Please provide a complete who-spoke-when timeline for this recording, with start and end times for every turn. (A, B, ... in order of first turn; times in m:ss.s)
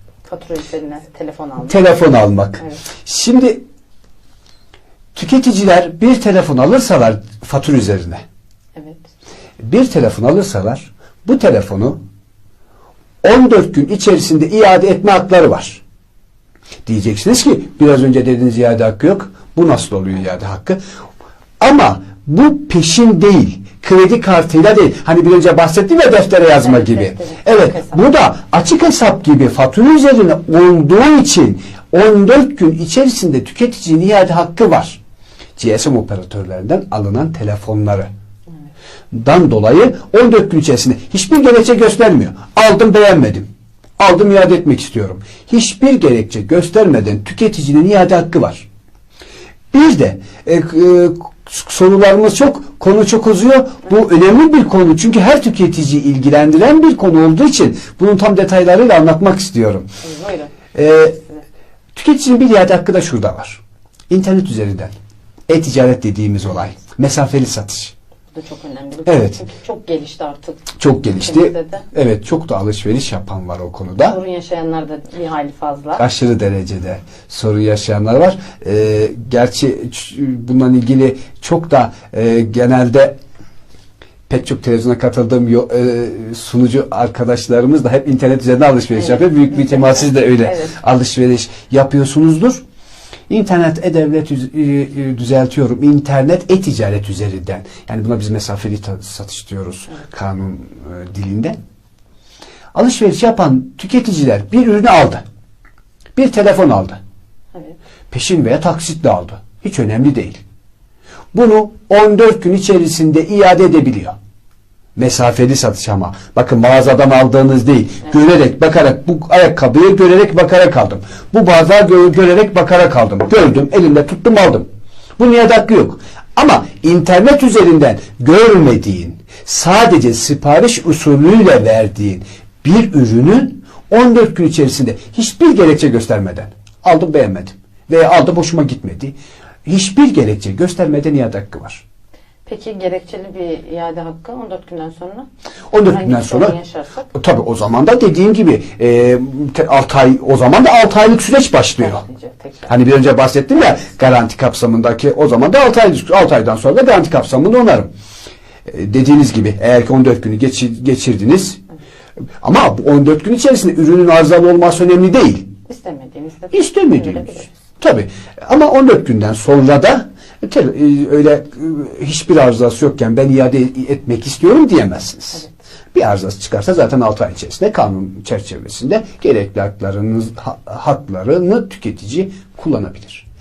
0:00.2-0:01.8 A
0:01.6-0:03.6 B
0:05.1-0:08.2 B
0:08.7-0:09.0 A
0:09.6-0:12.0 B
0:13.2-0:15.8 B
0:16.8-0:20.8 B
0:21.6-0:35.0 B
0:26.6-0:28.1 A
0:35.6-0:38.1 B
0:39.1-0:48.7 B
0:49.7-0:59.9 B
1:00.0-1:00.6 A
1:00.7-1:01.2 B
1:01.9-1:04.9 B
1:05.5-1:07.9 B
1:08.3-1:11.8 A
1:09.1-1:09.4 B
1:10.8-1:14.2 B
1:14.0-1:16.0 A
1:16.0-1:23.2 B
1:24.3-1:32.6 B
1:28.9-1:30.8 A
1:33.3-1:41.6 B
1:42.7-1:45.2 B
1:46.1-1:47.0 B
1:48.1-1:50.4 B
1:51.3-1:54.2 B
1:55.0-2:04.7 B
2:05.2-2:21.8 B
2:22.4-2:25.3 A
2:25.7-2:26.6 B
2:25.8-2:27.1 A
2:27.1-2:32.0 B
2:31.8-2:32.7 A
2:32.7-2:37.9 B
2:38.7-2:41.6 B
2:42.4-2:45.5 B
2:45.7-2:47.5 A
2:46.5-3:03.2 B